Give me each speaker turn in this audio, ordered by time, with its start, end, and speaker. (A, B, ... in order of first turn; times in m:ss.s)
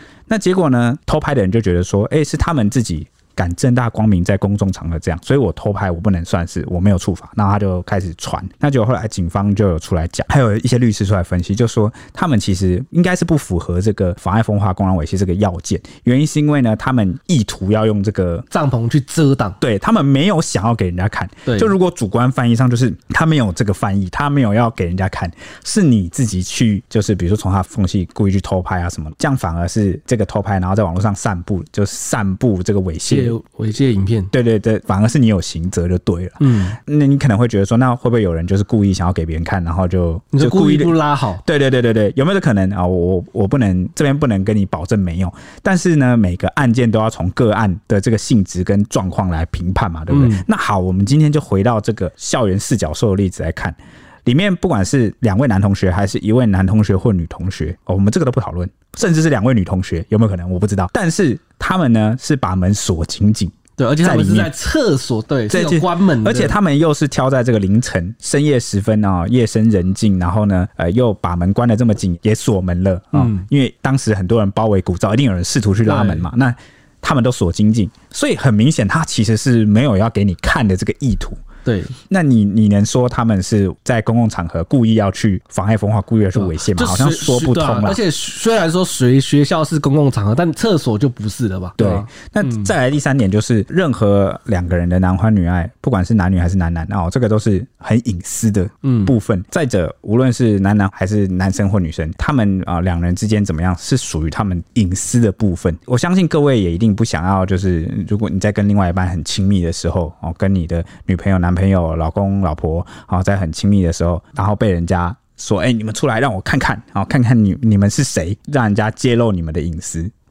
0:00.3-0:18.5 A
0:18.5-0:19.6 B
0:19.6-0:33.3 A
0:21.4-0:21.7 B
0:33.1-0:34.3 B
0:34.3-1:04.5 A
0:36.4-0:36.8 B
0:40.3-0:41.4 B
0:50.1-0:50.4 B
1:03.8-1:06.5 B
1:05.5-1:21.4 A
1:13.1-1:13.4 B
1:15.8-1:16.3 B
1:21.6-1:21.9 B
1:22.1-1:28.0 A
1:26.3-1:32.7 B
1:31.8-2:00.1 A
1:38.8-1:39.1 B